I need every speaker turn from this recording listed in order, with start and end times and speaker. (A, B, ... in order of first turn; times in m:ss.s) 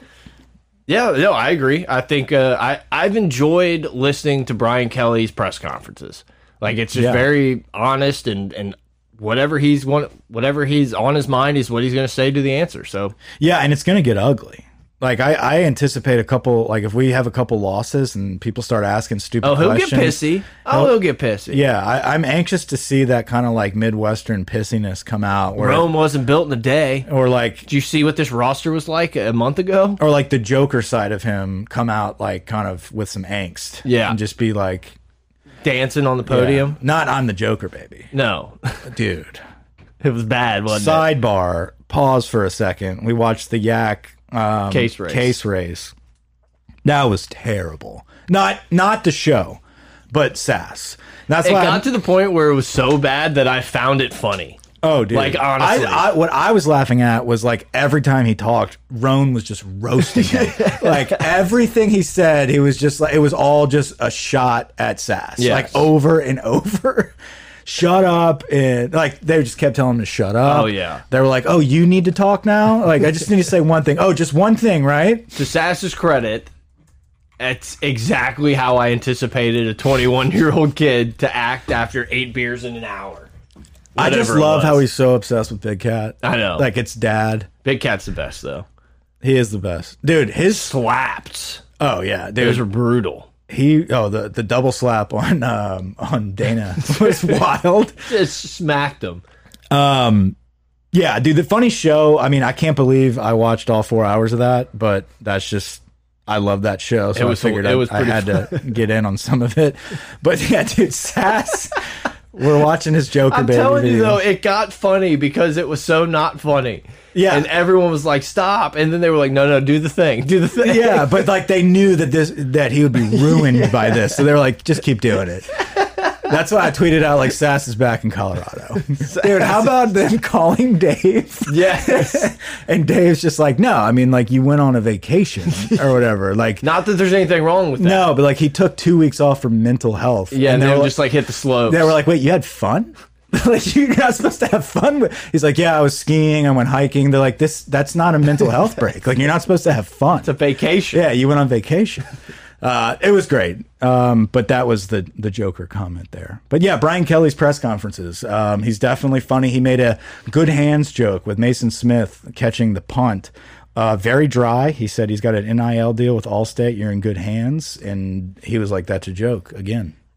0:00.9-0:13.2 A
0:06.9-0:07.3 B
0:13.4-0:21.0 B
0:19.4-0:21.6 A
0:21.5-0:25.9 B
0:25.6-0:27.1 A
0:27.0-0:27.7 B
0:27.7-0:30.0 A
0:30.0-0:34.9 B
0:33.8-0:34.2 A
0:35.6-0:36.8 A
0:36.3-0:38.1 B
0:38.1-0:38.8 A
0:38.9-0:39.4 B
0:40.0-0:41.1 A
0:40.7-0:45.9 B
0:44.7-0:45.4 A
0:46.8-0:49.6 B
0:50.1-0:51.8 B
0:51.4-0:54.6 A
0:54.8-1:15.3 B
0:55.1-0:56.1 A
1:00.2-1:01.2 A
1:05.4-1:05.9 A
1:10.4-1:11.0 A
1:15.3-1:16.5 A
1:17.4-1:23.3 A
1:24.0-1:24.8 A
1:24.0-1:27.5 B
1:26.2-1:26.7 A
1:27.6-1:28.6 A
1:29.2-1:30.7 B
1:30.5-1:31.6 A
1:31.8-1:32.6 B
1:32.4-1:33.3 A
1:33.5-1:38.1 B
1:38.0-1:39.2 A
1:39.7-1:40.3 B
1:40.9-1:51.8 B
1:47.1-1:48.7 A
1:52.3-1:54.2 B
1:53.3-2:01.2 A
1:57.1-1:57.4 B
2:00.6-2:05.5 B
2:03.1-2:04.2 A
2:06.2-2:16.6 B
2:09.0-2:09.7 A
2:11.5-2:12.3 A
2:16.6-2:18.1 A
2:17.8-2:21.0 B
2:20.3-2:22.0 A
2:21.7-2:30.3 B
2:30.2-2:31.0 A
2:30.9-2:32.0 B
2:32.6-2:49.9 B